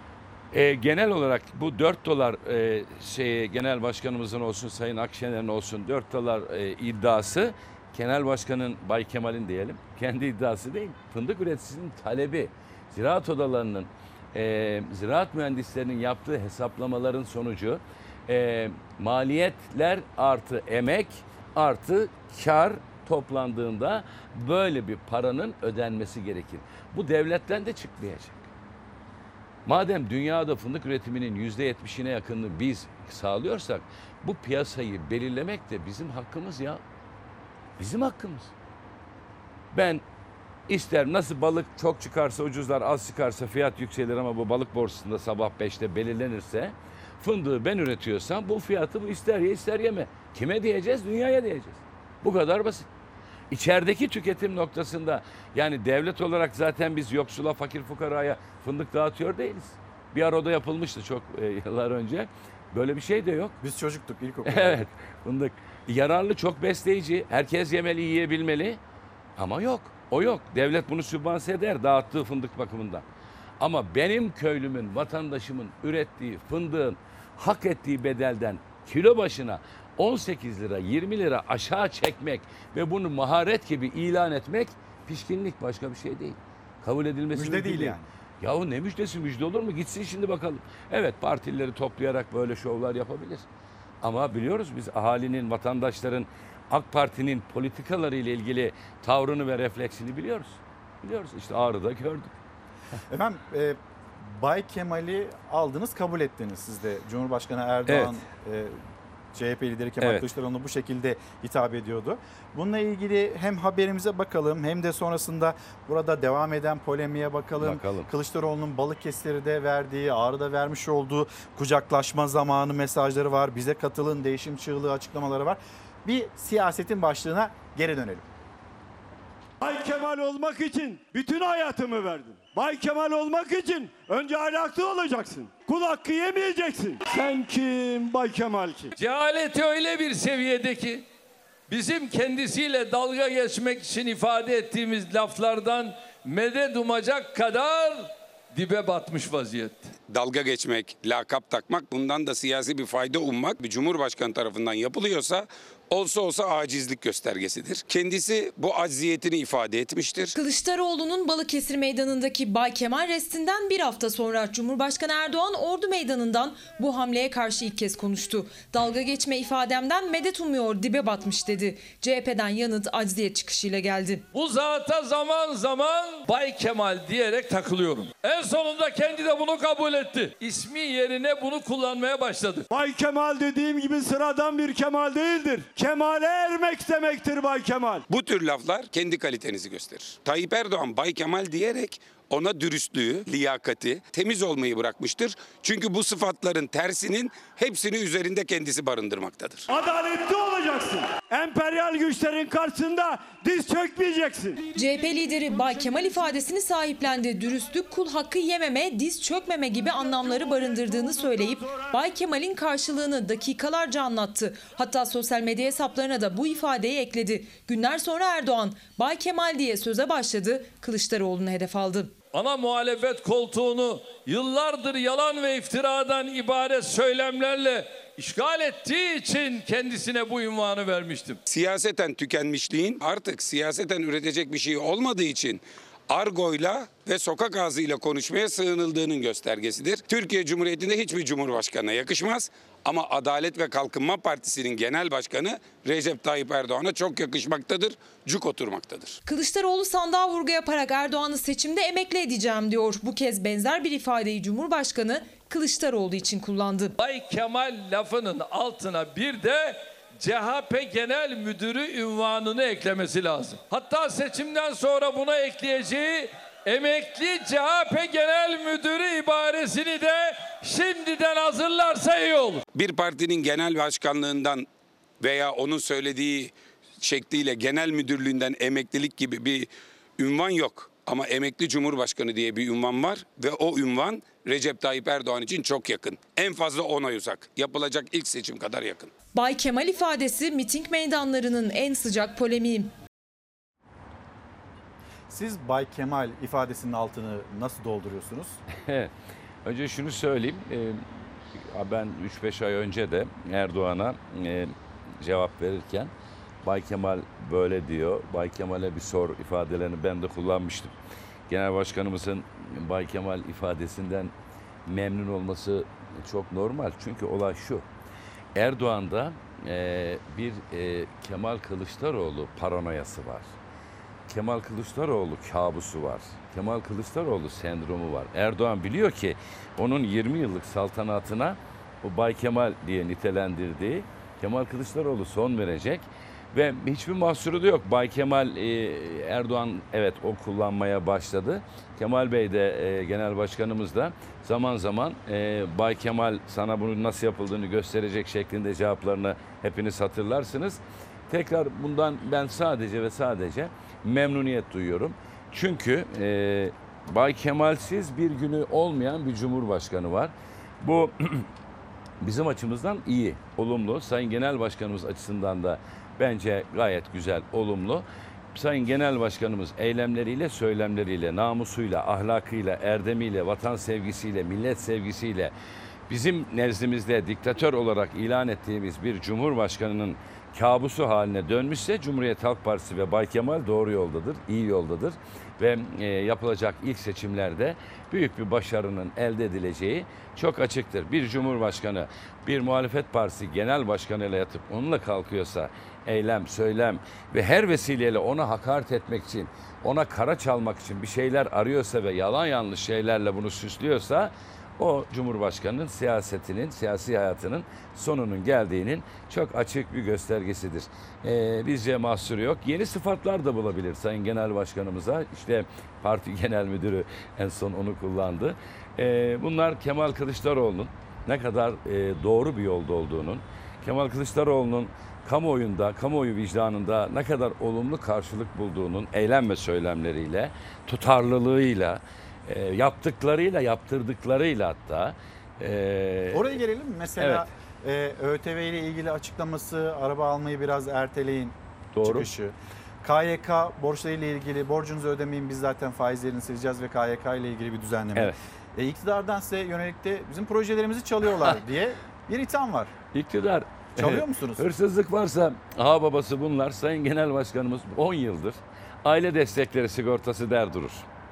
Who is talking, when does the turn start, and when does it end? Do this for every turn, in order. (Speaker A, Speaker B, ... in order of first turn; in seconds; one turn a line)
Speaker A: 0.5-28.5
Speaker A: 29.6-36.8
Speaker A: 37.8-38.5
Speaker A: 39.7-40.0
Speaker A: 40.7-52.9
Speaker A: 53.5-63.6
Speaker B: 63.6-64.8
Speaker A: 64.5-68.8
Speaker A: 69.4-73.0
Speaker A: 73.6-93.4
Speaker B: 87.3-88.0
Speaker A: 94.0-102.3
Speaker B: 103.1-108.8
Speaker A: 107.9-108.2
Speaker B: 109.3-128.2
Speaker A: 110.0-110.2
Speaker A: 117.6-118.1
Speaker C: 129.6-138.9
Speaker D: 138.9-141.0
Speaker D: 141.7-149.9
Speaker E: 150.1-160.3
Speaker F: 160.3-174.2
Speaker D: 174.3-182.7
Speaker C: 182.7-188.0
Speaker E: 188.1-199.7
Speaker C: 199.7-204.6
Speaker F: 204.7-222.1
Speaker D: 222.3-231.4
Speaker E: 231.5-249.2
Speaker F: 249.2-256.9
Speaker D: 257.0-272.6
Speaker E: 272.7-274.7
Speaker E: 275.2-289.1
Speaker F: 289.3-292.9
Speaker B: 295.3-298.6
Speaker A: 298.8-299.1
Speaker A: 299.6-301.0
Speaker A: 301.7-306.1
Speaker A: 306.6-310.9
Speaker A: 311.5-314.3
Speaker A: 314.9-317.9
Speaker A: 318.5-323.5
Speaker A: 324.3-361.5
Speaker A: 362.2-375.5
Speaker A: 376.1-436.4
Speaker B: 436.3-452.9
Speaker A: 437.1-437.5
Speaker A: 441.9-442.3
Speaker A: 453.1-461.1
Speaker B: 453.9-454.7